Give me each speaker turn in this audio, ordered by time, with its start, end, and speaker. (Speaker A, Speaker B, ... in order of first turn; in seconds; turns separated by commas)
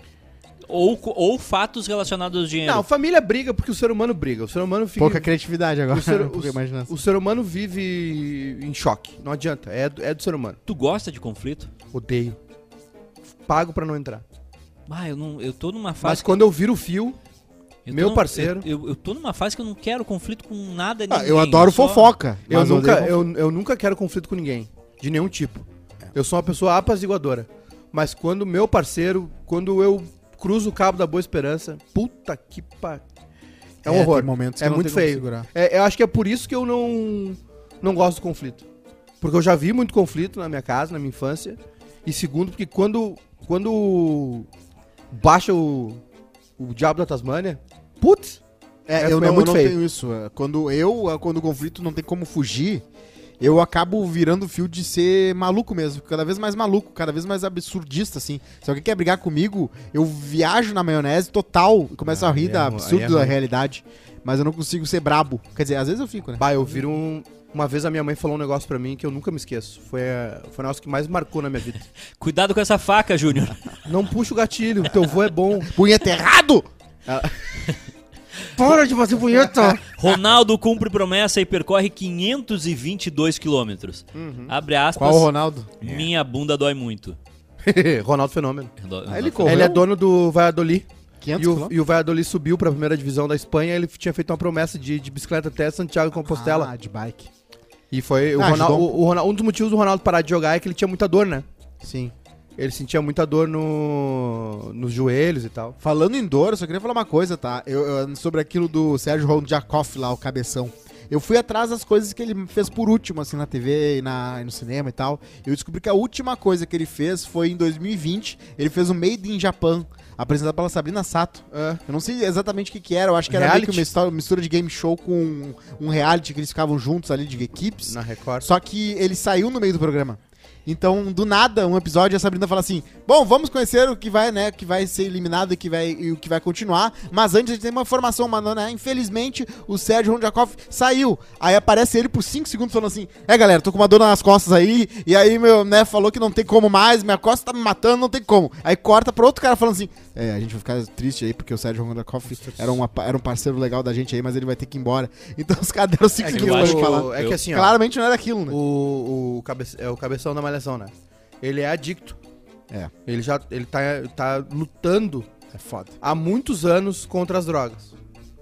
Speaker A: 0.7-2.9, Speaker B: 2.6-5.3, Speaker C: 5.0-6.9, Speaker B: 5.9-10.6, Speaker A: 10.7-11.7, Speaker B: 11.9-12.4, Speaker B: 13.5-14.2, Speaker A: 14.9-16.4, Speaker B: 16.0-17.2, Speaker A: 17.9-22.2, Speaker B: 17.9-18.7, Speaker C: 21.1-23.3, Speaker B: 22.5-33.0, Speaker C: 33.8-35.5, Speaker B: 33.8-38.6, Speaker B: 39.2-44.5, Speaker B: 45.1-46.0, Speaker B: 46.6-48.4, Speaker C: 48.9-52.8, Speaker B: 49.0-49.8, Speaker C: 53.4-66.5, Speaker B: 62.0-63.4, Speaker B: 66.4-71.9, Speaker A: 72.2-73.7, Speaker B: 73.8-75.7, Speaker C: 75.7-76.7, Speaker B: 77.1-77.5, Speaker B: 78.6-80.0, Speaker C: 79.4-79.7, Speaker A: 79.9-85.3, Speaker B: 84.1-84.5, Speaker C: 85.0-85.9, Speaker A: 85.8-87.2, Speaker B: 87.6-88.7, Speaker A: 88.8-89.7, Speaker C: 89.1-89.8, Speaker B: 89.4-90.9, Speaker C: 91.2-91.7, Speaker B: 91.4-96.7, Speaker C: 96.3-97.3, Speaker B: 97.9-101.5, Speaker C: 98.4-98.9, Speaker C: 101.8-102.1, Speaker B: 102.6-105.8, Speaker C: 105.8-158.6, Speaker B: 121.5-121.8, Speaker B: 123.3-123.9, Speaker B: 127.9-128.5, Speaker B: 152.4-152.8, Speaker B: 156.2-157.8, Speaker A: 156.3-157.4, Speaker B: 158.5-162.2, Speaker B: 163.1-165.3, Speaker C: 165.5-165.9, Speaker B: 166.0-167.9